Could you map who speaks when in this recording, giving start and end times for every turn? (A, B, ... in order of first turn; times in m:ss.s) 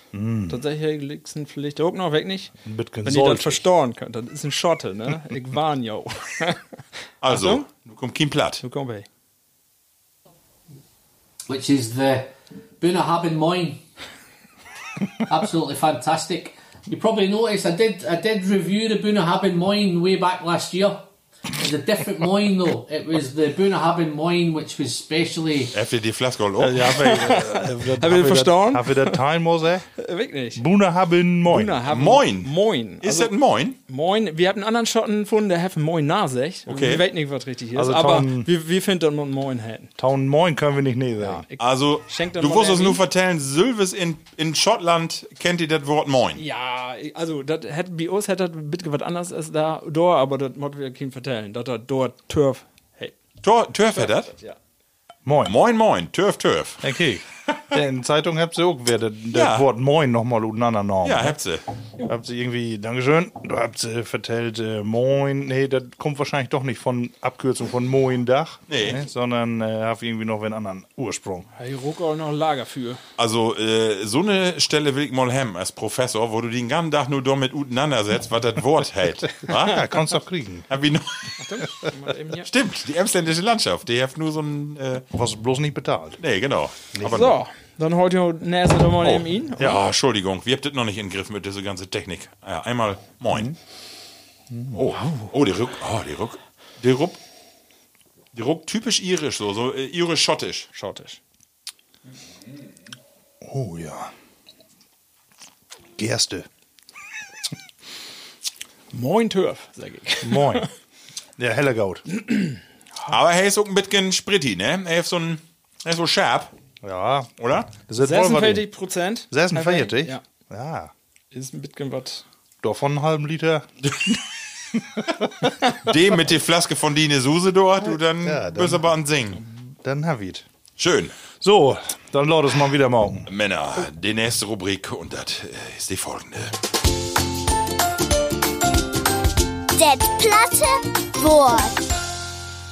0:00.1-0:00.6 A
0:00.5-0:06.6 B
0:02.6-0:03.6 A
0:07.2-0:08.6 C
0:07.2-0:07.6 B
0:08.6-0:09.0 B
0:11.5-0:13.8 D
0:15.2-0:25.7 D
0:25.7-0:27.1 C
0:26.6-0:29.9 A
0:27.0-0:29.2 B
0:30.0-0:30.6 B
0:30.6-0:31.8 A
0:31.4-0:33.3 B
0:31.9-0:32.5 C
0:33.0-0:33.8 C
0:33.9-0:39.9 B
0:36.7-0:37.0 C
0:37.7-0:38.5 A
0:40.0-0:41.4 A
0:41.2-0:43.0 B
0:41.6-0:46.4 C
0:46.4-0:53.2 B
0:53.4-0:54.3 C
0:53.9-0:54.6 B
0:55.2-0:55.5 A
0:55.4-0:56.9 C
0:56.8-1:01.4 A
0:59.3-0:59.7 C
1:01.0-1:01.6 C
1:02.0-1:11.5 A
1:08.7-1:09.0 C
1:11.6-1:13.0 B
1:13.2-1:19.8 C
1:19.4-1:20.7 A
1:20.7-1:21.3 C
1:21.4-1:22.5 B
1:22.4-1:25.0 C
1:25.1-1:26.2 A
1:26.2-1:27.4 C
1:26.9-1:27.3 A
1:27.0-1:29.8 B
1:29.0-1:33.5 C
1:34.5-1:34.8 A
1:34.7-1:37.2 C
1:34.9-1:35.3 B
1:38.3-1:40.7 C
1:40.7-1:41.2 B
1:43.4-1:44.1 A
1:46.0-1:46.4 A
1:48.9-1:50.7 B
1:50.2-1:50.7 A
1:51.4-1:52.0 A
1:52.1-1:53.1 B
1:53.1-1:56.5 C
1:56.8-1:58.6 A
1:57.4-1:57.7 C
1:58.0-2:00.2 B
1:59.3-2:00.9 A
2:01.3-2:02.2 B
2:02.6-2:04.2 A
2:04.7-2:05.5 A
2:05.8-2:09.4 C
2:07.8-2:08.8 A
2:09.7-2:10.4 A
2:10.8-2:11.2 C
2:11.4-2:13.3 A
2:13.2-2:16.6 C
2:19.7-2:21.8 E